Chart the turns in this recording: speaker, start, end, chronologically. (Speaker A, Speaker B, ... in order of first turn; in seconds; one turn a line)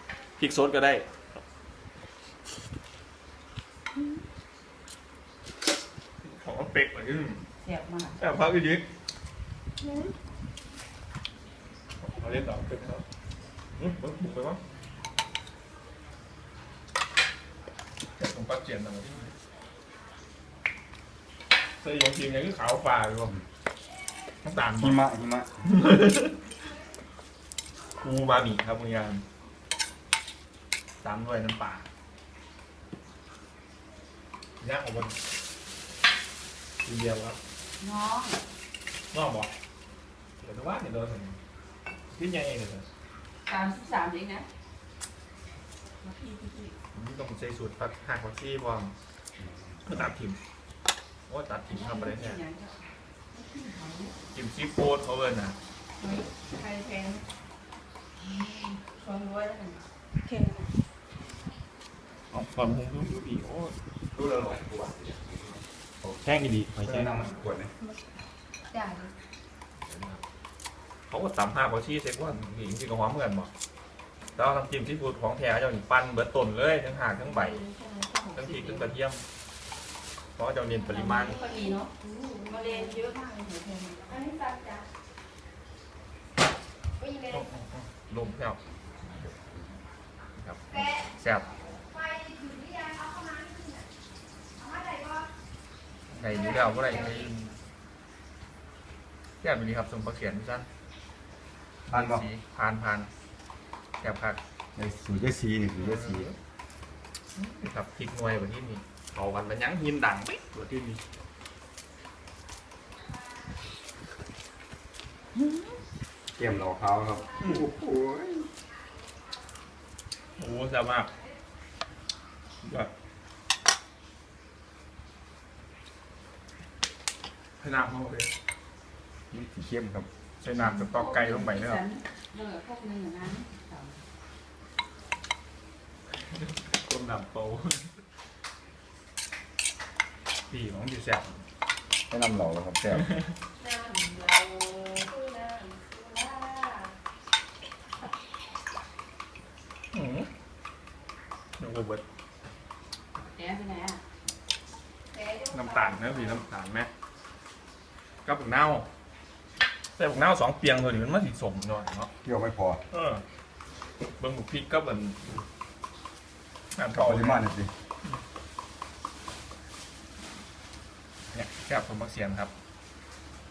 Speaker A: 0.4-1.1
Speaker A: 6.2-7.4
Speaker B: 7.6-8.2
Speaker A: 8.2-8.8
Speaker A: 12.0-13.0
Speaker A: 13.8-14.6
Speaker A: 18.2-19.3
Speaker A: 21.8-23.3
Speaker A: 24.4-25.0
Speaker C: 24.8-25.5
Speaker A: 25.6-26.3
Speaker A: 28.0-29.2
Speaker A: 31.0-31.8
Speaker A: 34.6-35.1
Speaker A: 36.8-37.4
Speaker B: 37.8-38.4
Speaker A: 39.1-39.5
Speaker A: 40.4-41.4
Speaker A: 42.1-42.8
Speaker B: 43.5-44.5
Speaker B: 46.0-46.8
Speaker A: 46.9-48.9
Speaker C: 49.4-50.1
Speaker A: 49.9-50.4
Speaker A: 51.3-52.4
Speaker B: 51.7-54.1
Speaker A: 54.3-55.5
Speaker B: 56.0-57.2
Speaker B: 58.2-60.7
Speaker A: 62.3-63.7
Speaker C: 64.1-66.2
Speaker A: 66.2-67.3
Speaker C: 66.8-67.7
Speaker D: 68.7-69.1
Speaker A: 69.8-70.2
Speaker A: 71.1-73.5
Speaker A: 74.3-77.6
Speaker B: 77.2-78.9
Speaker A: 78.3-79.2
Speaker A: 80.4-81.4
Speaker B: 80.8-81.9
Speaker D: 81.0-83.0
Speaker B: 82.5-84.2
Speaker D: 84.1-84.8
Speaker D: 87.0-87.5
Speaker A: 87.3-88.6
Speaker C: 89.0-89.7
Speaker A: 90.4-91.5
Speaker D: 90.7-91.1
Speaker D: 91.9-93.9
Speaker D: 94.5-95.3
Speaker A: 96.1-97.5
Speaker D: 96.2-97.3
Speaker A: 99.4-100.7
Speaker C: 101.9-102.2
Speaker A: 101.9-103.1
Speaker A: 104.0-104.4
Speaker C: 104.8-106.3
Speaker A: 105.8-106.3
Speaker A: 107.3-111.0
Speaker A: 115.4-115.6
Speaker C: 116.4-118.5
Speaker A: 117.4-117.7
Speaker A: 120.4-121.1
Speaker A: 122.6-122.9
Speaker A: 127.6-128.3
Speaker C: 129.3-130.1
Speaker A: 130.4-131.8
Speaker B: 130.6-134.0
Speaker A: 136.3-137.9
Speaker A: 140.5-141.4
Speaker C: 142.1-143.1
Speaker A: 142.9-143.3
Speaker D: 143.6-146.9
Speaker A: 149.9-150.3
Speaker A: 151.6-152.0
Speaker B: 153.3-154.0
Speaker D: 155.1-156.4
Speaker A: 155.5-156.9
Speaker A: 158.2-158.8
Speaker A: 160.0-162.1
Speaker C: 162.2-162.8
Speaker A: 162.9-163.2
Speaker A: 164.2-165.2
Speaker A: 166.7-167.4
Speaker C: 166.9-167.7
Speaker A: 171.3-172.5